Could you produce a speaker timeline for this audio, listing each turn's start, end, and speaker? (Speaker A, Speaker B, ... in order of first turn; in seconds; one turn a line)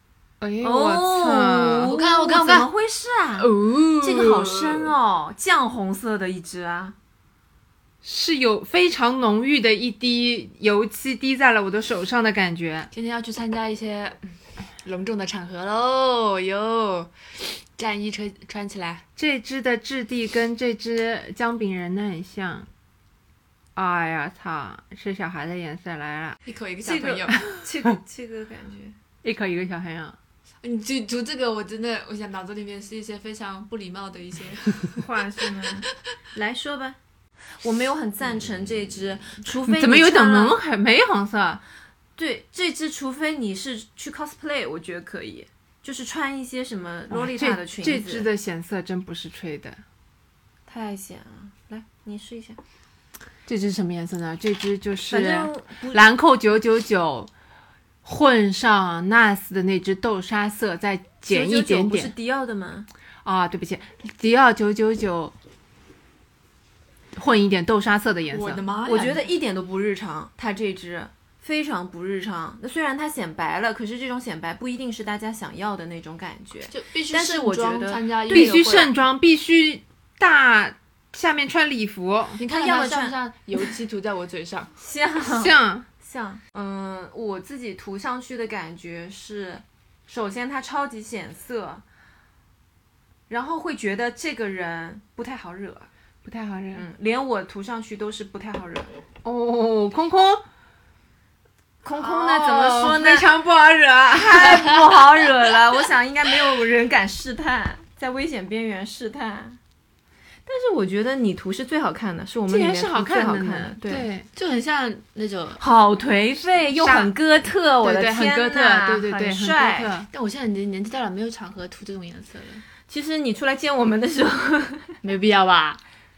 Speaker A: 0.4-1.9
Speaker B: 0.6-7.0
Speaker C: 1.9-2.7
Speaker C: 3.4-4.2
Speaker A: 3.6-4.6
Speaker A: 8.0-12.9
Speaker C: 12.9-19.0
Speaker A: 19.2-22.7
Speaker A: 23.8-26.4
Speaker C: 26.5-27.4
Speaker B: 26.8-28.9
Speaker A: 27.3-27.9
Speaker A: 29.2-30.2
Speaker C: 30.6-35.0
Speaker B: 35.0-37.0
Speaker B: 37.6-40.6
Speaker A: 39.7-41.6
Speaker B: 42.2-48.3
Speaker A: 47.1-49.8
Speaker B: 50.7-52.6
Speaker A: 53.5-57.3
Speaker B: 55.1-56.1
Speaker A: 58.0-62.1
Speaker B: 61.3-62.9
Speaker A: 63.2-65.3
Speaker A: 67.2-68.6
Speaker C: 68.3-69.3
Speaker B: 68.8-78.9
Speaker C: 76.7-78.9
Speaker A: 78.3-82.4
Speaker C: 82.4-84.7
Speaker B: 82.5-83.2
Speaker B: 84.8-91.8
Speaker A: 85.2-85.9
Speaker B: 93.3-95.9
Speaker A: 96.2-96.8
Speaker B: 96.7-98.9
Speaker A: 99.2-100.4
Speaker B: 101.8-103.3
Speaker A: 102.0-104.8
Speaker B: 104.1-109.6
Speaker B: 110.5-114.1
Speaker A: 112.5-114.3
Speaker C: 114.3-115.6
Speaker B: 115.6-119.9
Speaker A: 116.7-117.1
Speaker A: 117.8-120.1
Speaker C: 120.1-122.6
Speaker B: 122.9-124.9
Speaker C: 125.0-125.8